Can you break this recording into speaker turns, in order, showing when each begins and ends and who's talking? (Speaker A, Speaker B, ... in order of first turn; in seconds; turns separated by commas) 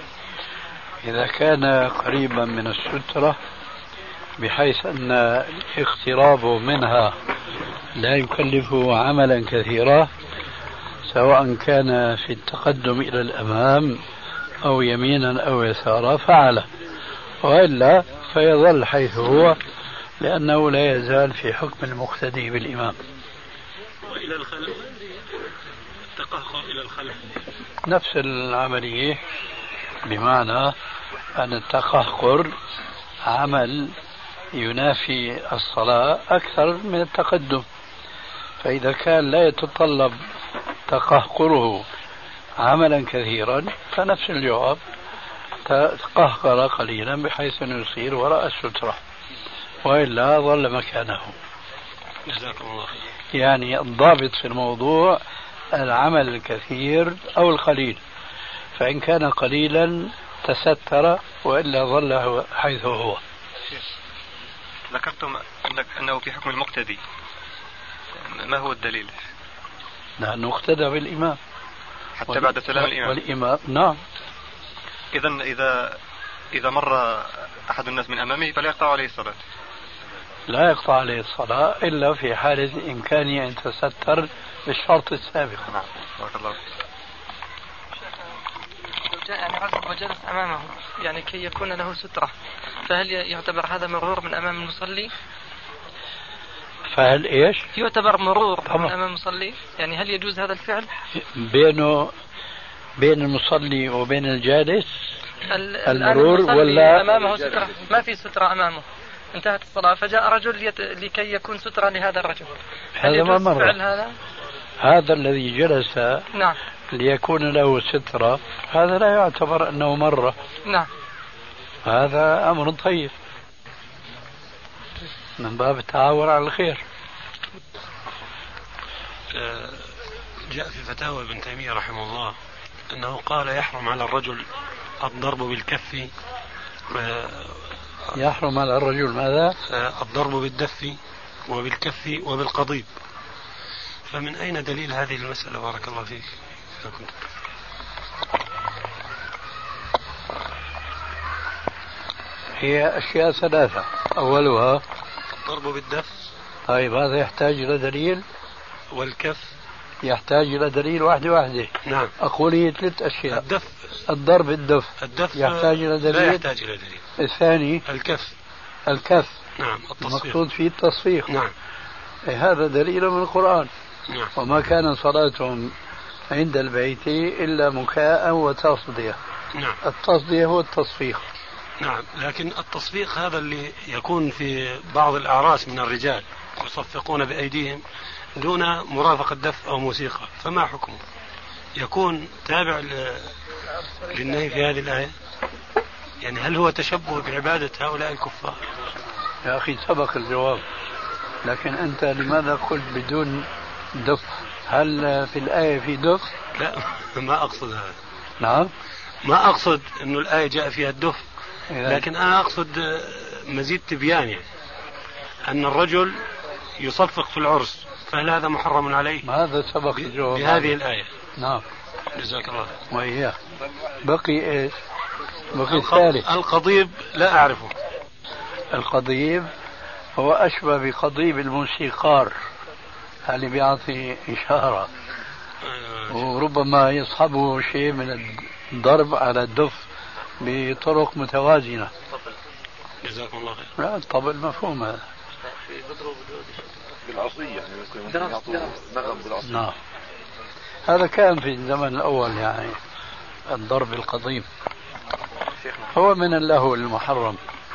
Speaker A: 1.0-3.4, Speaker A: 4.4-7.2, Speaker A: 8.0-10.1, Speaker A: 11.1-14.0, Speaker A: 14.6-16.7, Speaker A: 17.4-19.6, Speaker A: 20.2-23.0, Speaker B: 24.1-24.8, Speaker B: 26.2-27.2, Speaker A: 27.9-29.2, Speaker A: 30.1-30.7, Speaker A: 31.4-32.5, Speaker A: 33.3-33.9, Speaker A: 34.5-37.6, Speaker A: 38.6-40.2, Speaker A: 40.9-41.9, Speaker A: 42.6-44.8, Speaker A: 45.7-49.0, Speaker A: 49.9-51.4, Speaker B: 52.3-52.9, Speaker A: 53.3-55.2, Speaker A: 55.7-58.0, Speaker A: 58.8-63.2, Speaker C: 64.9-67.0, Speaker C: 68.3-69.2, Speaker A: 70.2-71.4, Speaker C: 72.2-73.2, Speaker A: 72.3-74.0, Speaker C: 75.1-75.9, Speaker C: 76.5-79.4, Speaker A: 80.5-85.7, Speaker C: 85.7-86.6, Speaker D: 89.1-92.3, Speaker D: 92.9-95.1, Speaker A: 96.9-97.6, Speaker D: 97.8-100.9, Speaker A: 101.3-102.1, Speaker A: 103.0-104.9, Speaker D: 105.5-114.2, Speaker A: 105.8-107.1, Speaker A: 113.0-113.8, Speaker A: 114.8-116.2, Speaker A: 116.9-120.4, Speaker A: 121.8-123.1, Speaker A: 125.4-126.8, Speaker B: 129.3-132.3, Speaker B: 132.9-134.4, Speaker B: 135.0-136.1, Speaker B: 136.9-138.2, Speaker A: 138.2-139.6, Speaker B: 139.7-142.9, Speaker B: 144.1-147.1, Speaker A: 152.6-154.8, Speaker B: 155.4-156.1, Speaker A: 156.7-158.2, Speaker B: 158.9-159.5, Speaker A: 160.0-163.4, Speaker B: 161.9-162.1, Speaker B: 163.3-163.9, Speaker A: 164.1-166.4, Speaker B: 165.0-167.0, Speaker A: 167.2-167.8, Speaker B: 167.9-168.3, Speaker A: 168.9-169.4, Speaker B: 169.6-170.4, Speaker A: 170.0-171.3, Speaker B: 171.3-171.5, Speaker A: 172.3-173.7, Speaker B: 174.1-174.3, Speaker A: 174.4-175.7, Speaker A: 176.3-179.2, Speaker A: 179.8-181.2, Speaker B: 181.8-187.8, Speaker B: 188.4-191.0, Speaker B: 191.8-193.3, Speaker B: 194.1-195.1, Speaker B: 196.2-198.6, Speaker A: 199.4-200.6, Speaker A: 201.4-206.3, Speaker B: 206.6-207.9, Speaker A: 208.4-208.7, Speaker B: 209.2-211.2, Speaker A: 211.7-212.1, Speaker B: 211.8-214.4, Speaker B: 215.4-216.2, Speaker B: 216.8-219.3, Speaker A: 219.2-220.8, Speaker B: 219.9-221.1, Speaker A: 221.4-221.6, Speaker B: 222.2-222.7, Speaker A: 222.9-223.4, Speaker A: 224.0-224.8, Speaker A: 225.5-226.3, Speaker B: 225.6-227.7, Speaker A: 228.7-229.5, Speaker A: 230.2-232.3, Speaker A: 233.3-234.9, Speaker B: 235.6-236.3, Speaker A: 236.1-239.8, Speaker A: 240.4-241.9, Speaker B: 243.0-243.7, Speaker A: 243.8-245.1, Speaker A: 249.4-249.8, Speaker A: 250.9-252.8, Speaker A: 253.5-254.5, Speaker A: 255.9-257.4